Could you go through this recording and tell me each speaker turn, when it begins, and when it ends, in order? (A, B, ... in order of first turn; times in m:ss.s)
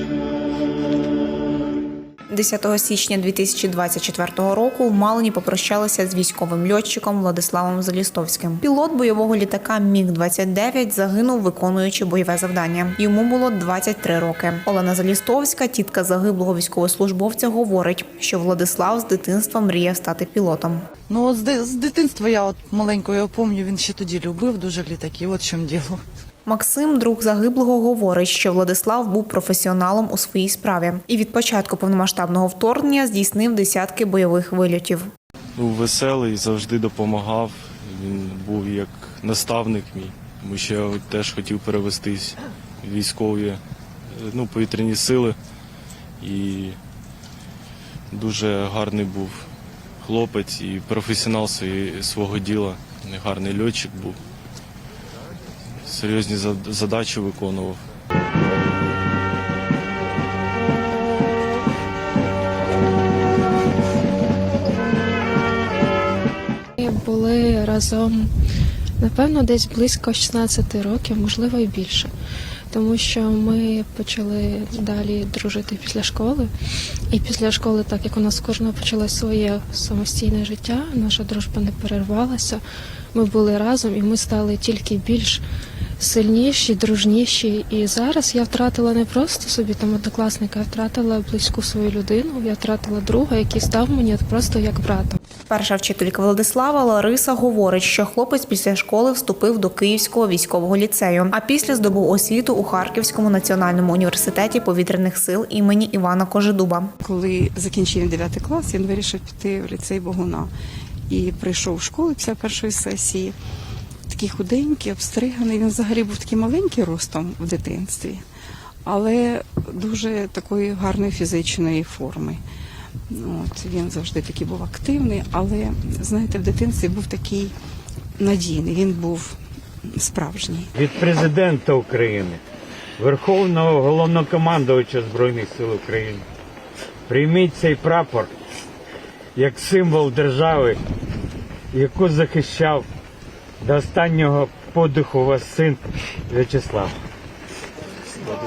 0:02.3-0:20.9 A
0:21.1-0:26.0 B
0:26.5-0:35.1 A
0:35.6-0:43.6 C
0:44.2-0:45.4 C
0:46.2-0:46.8 C
0:48.1-0:49.5 C
0:50.0-0:54.2 C
0:55.9-0:57.8 C
1:06.8-1:08.3 D
1:09.0-1:12.1 D
1:12.7-1:16.5 D
1:17.1-1:22.6 D
1:23.1-1:25.4 D
1:26.0-1:35.2 D
1:35.5-1:46.9 A
1:47.0-1:50.5 E
1:51.1-1:53.4 E
1:54.1-1:58.2 E
1:58.8-2:02.4 E
2:03.1-2:07.6 E
2:08.2-2:10.7 E
2:10.8-2:12.4 F
2:13.0-2:16.2 F
2:17.1-2:18.3 F
2:19.4-2:20.8 F
2:21.7-2:22.9 F
2:23.6-2:26.9 F